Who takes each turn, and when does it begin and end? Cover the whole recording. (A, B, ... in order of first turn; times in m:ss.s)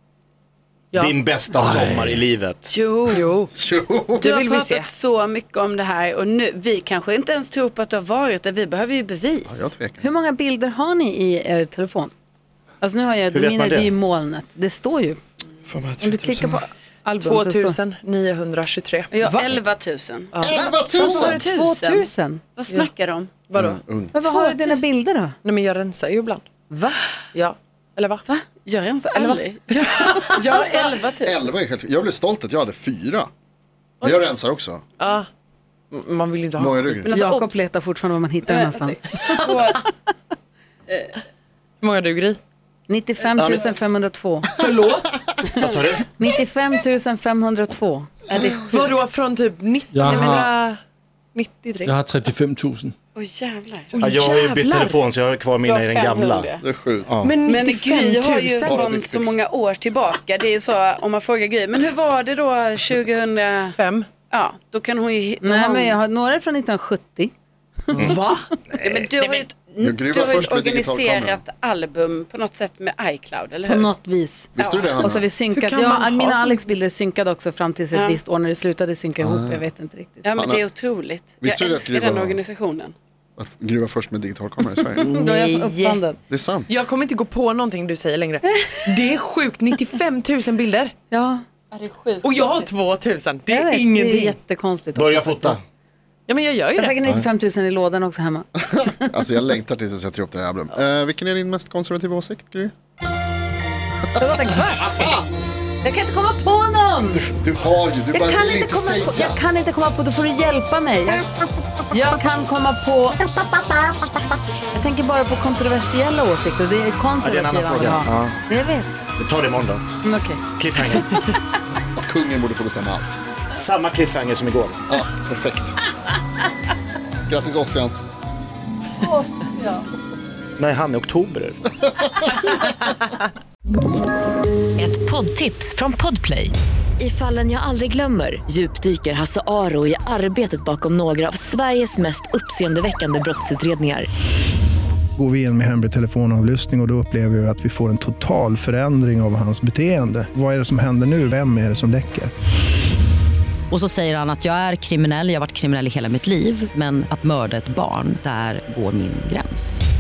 0:00.9-0:02.8 A
0:01.6-0:02.1 B
0:02.7-0:03.3 C
0:03.1-0:03.5 D
0:03.5-0:04.4 E
0:04.2-0:09.7 C
0:04.2-0:04.9 D
0:09.5-0:10.1 E
0:10.0-0:12.1 F
0:12.8-0:15.2 F
0:13.3-0:13.9 A
0:15.7-0:16.6 E
0:16.0-0:17.8 F
0:17.1-0:19.1 D
0:19.1-0:20.3 C
0:19.2-0:19.5 F
0:20.3-0:21.6 D
0:20.4-0:21.4 E
0:20.7-0:22.4 F
0:21.2-0:24.5 C
0:23.6-0:24.1 E
0:24.1-0:25.3 F
0:25.4-0:26.4 D
0:26.7-0:27.0 F
0:27.3-0:28.2 D
0:28.3-0:31.5 C
0:30.0-0:30.8 D
0:31.2-0:33.3 E
0:34.0-0:34.8 E
0:35.0-0:35.3 D
0:35.9-0:36.8 D
0:36.6-0:37.1 E
0:37.0-0:37.6 C
0:37.1-0:39.5 F
0:38.5-0:39.8 C
0:40.9-0:41.1 C
0:41.8-0:42.4 D
0:42.9-0:44.5 F
0:43.4-0:43.6 A
0:44.5-0:45.2 D
0:45.6-0:46.0 A
0:46.2-0:48.1 F
0:48.3-0:49.0 C
0:48.7-0:50.8 D
0:49.9-0:50.5 B
0:50.1-0:50.5 C
0:51.3-0:52.0 D
0:51.8-0:52.9 B
0:53.1-0:54.2 C
0:53.9-0:55.0 D
0:54.0-0:56.5 A
0:55.6-0:56.6 C
0:56.6-0:57.2 E
0:57.1-0:57.4 A
0:57.2-0:58.8 D
0:57.4-1:03.8 C
0:58.6-0:59.4 E
1:03.7-1:04.1 D
1:04.3-1:06.0 C
1:05.4-1:07.3 F
1:07.9-1:08.3 F
1:07.9-1:08.5 D
1:08.7-1:09.0 A
1:08.7-1:13.9 C
1:09.2-1:09.5 D
1:09.8-1:11.4 E
1:13.7-1:20.2 F
1:14.5-1:15.2 E
1:14.6-1:15.1 C
1:15.5-1:16.7 D
1:17.9-1:18.2 C
1:19.2-1:19.6 E
1:20.2-1:22.9 C
1:20.3-1:20.6 E
1:21.4-1:22.4 E
1:23.4-1:25.1 E
1:25.0-1:26.0 D
1:25.0-1:26.2 F
1:26.3-1:26.7 E
1:26.7-1:30.9 D
1:28.5-1:28.8 F
1:31.1-1:31.4 F
1:31.7-1:32.6 C
1:32.2-1:34.4 D
1:33.5-1:35.6 F
1:34.9-1:35.6 A
1:36.3-1:37.0 D
1:36.7-1:39.1 F
1:38.7-1:42.7 E
1:44.1-1:45.1 F
1:44.8-1:45.2 E
1:45.8-1:47.2 F
1:47.1-1:49.4 E
1:48.1-1:51.2 F
1:51.9-1:59.1 F
1:57.2-1:58.4 A
1:59.2-1:59.8 A
2:00.0-2:01.3 F
2:00.6-2:01.3 A
2:02.0-2:03.1 E
2:03.5-2:04.9 A
2:04.9-2:05.8 E
2:07.3-2:08.0 E
2:09.0-2:09.8 F
2:10.6-2:11.7 A
2:14.8-2:24.1 G
2:25.2-2:32.3 H
2:33.9-2:39.6 I